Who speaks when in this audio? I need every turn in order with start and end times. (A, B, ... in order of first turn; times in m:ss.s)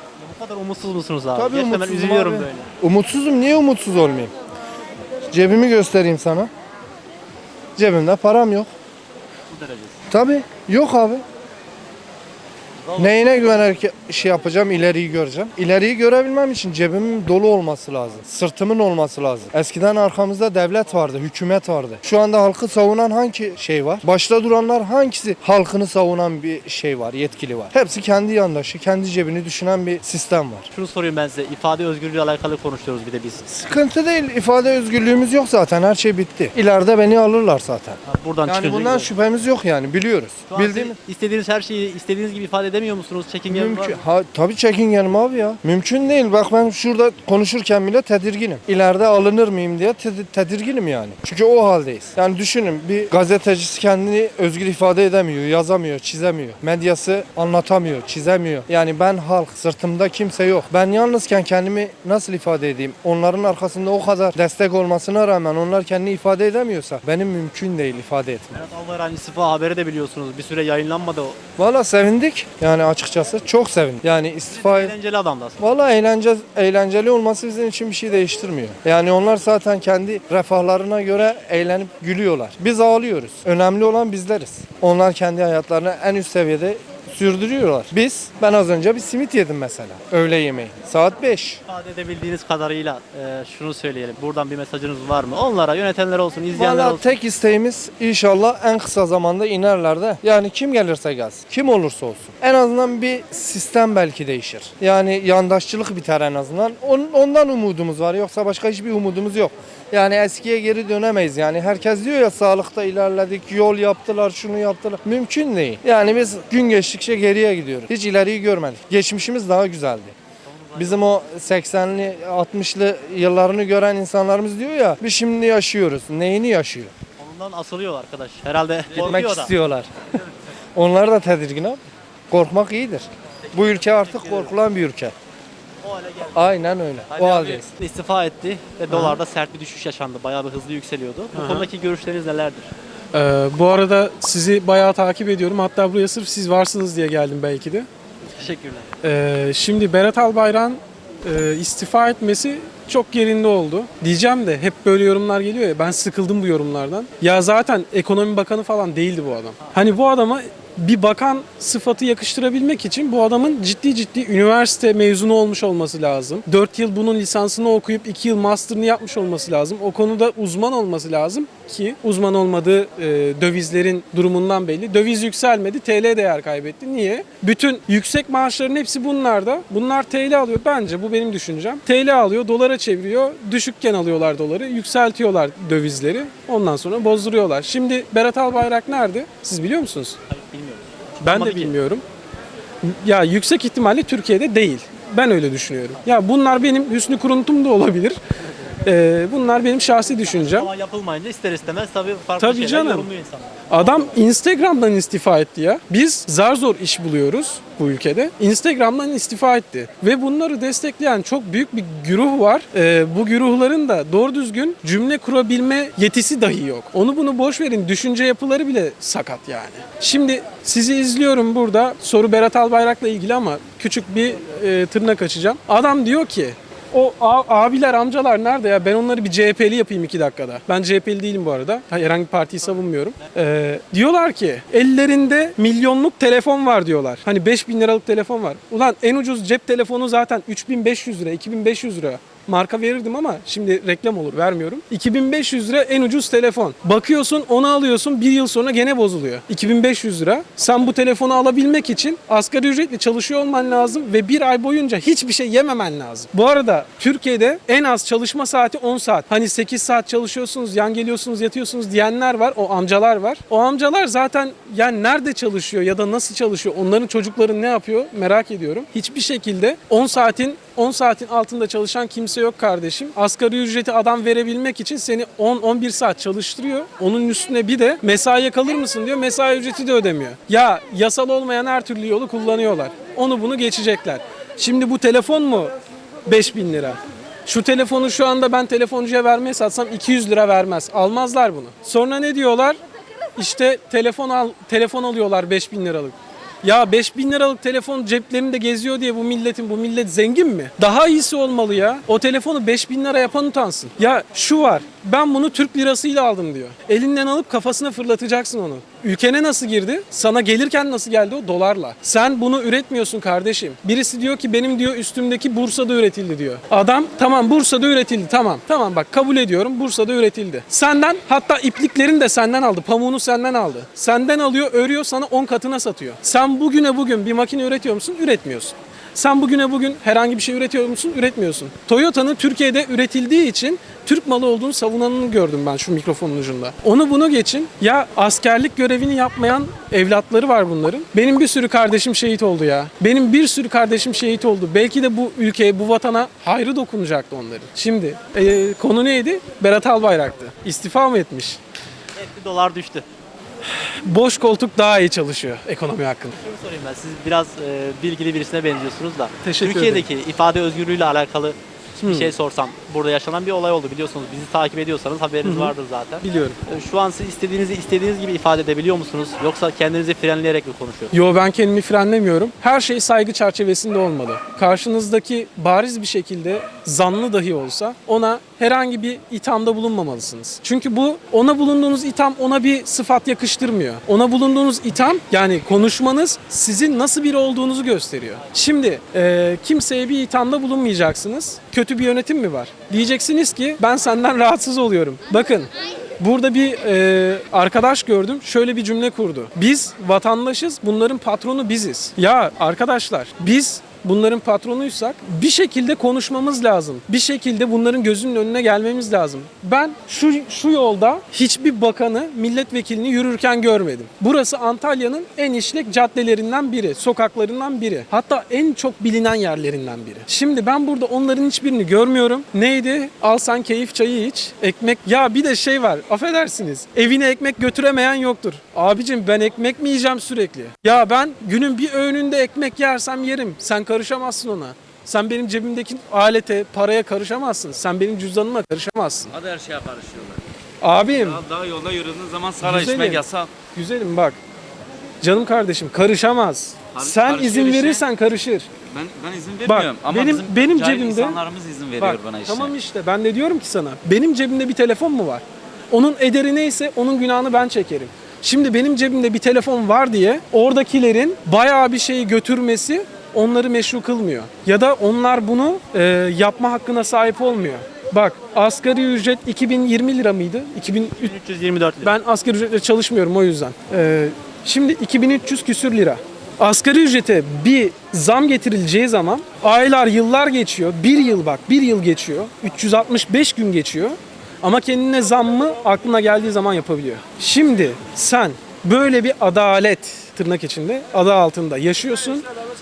0:00.2-0:02.7 A
0:01.3-0:04.3 B
0:05.3-0:06.5 B
0:07.8-0:08.7 B
0:09.5-0:10.0 A
0:10.1-0:11.2 B
0:12.9-0:13.2 A
0:13.0-0:30.7 B
0:30.7-0:33.4 A
0:33.5-0:41.0 B
0:38.1-0:39.1 A
0:40.5-0:44.0 A
0:43.5-1:08.6 B
1:08.5-1:11.4 A
1:11.6-1:14.9 B
1:14.5-1:15.6 A
1:15.6-1:31.6 B
1:31.6-1:37.1 A
1:36.5-2:00.1 B
2:00.4-2:01.1 A
2:00.8-2:06.9 B
2:07.2-2:09.5 A
2:09.0-2:09.9 B
2:10.7-2:11.8 B
2:12.3-2:15.1 B
2:13.4-2:14.5 A
2:15.8-2:16.5 A
2:16.3-2:17.7 B
2:17.1-2:22.7 A
2:18.9-2:19.2 C
2:21.3-2:21.7 C
2:23.1-2:27.9 C
2:28.3-2:28.9 A
2:29.0-3:10.2 C
3:10.3-3:11.7 A
3:11.2-3:12.0 C
3:12.8-3:18.2 C
3:18.8-3:20.7 C
3:20.2-3:24.1 A
3:22.4-3:23.1 C
3:23.7-4:45.7 C
4:46.2-4:52.8 C
4:53.4-5:51.6 C
5:52.2-5:53.0 A
5:53.7-5:56.3 C
5:56.4-6:11.1 A
5:59.4-6:00.1 C
6:02.0-6:02.3 C
6:05.4-6:06.6 C
6:11.1-7:19.3 C
7:19.3-7:20.4 D
7:20.8-7:21.4 C
7:21.3-7:23.5 D
7:22.6-7:24.4 C
7:25.2-7:28.7 C
7:26.9-7:28.1 D
7:28.9-7:32.7 D
7:29.6-7:31.4 C
7:32.0-7:51.3 C
7:51.1-7:52.2 A
7:52.0-8:12.5 C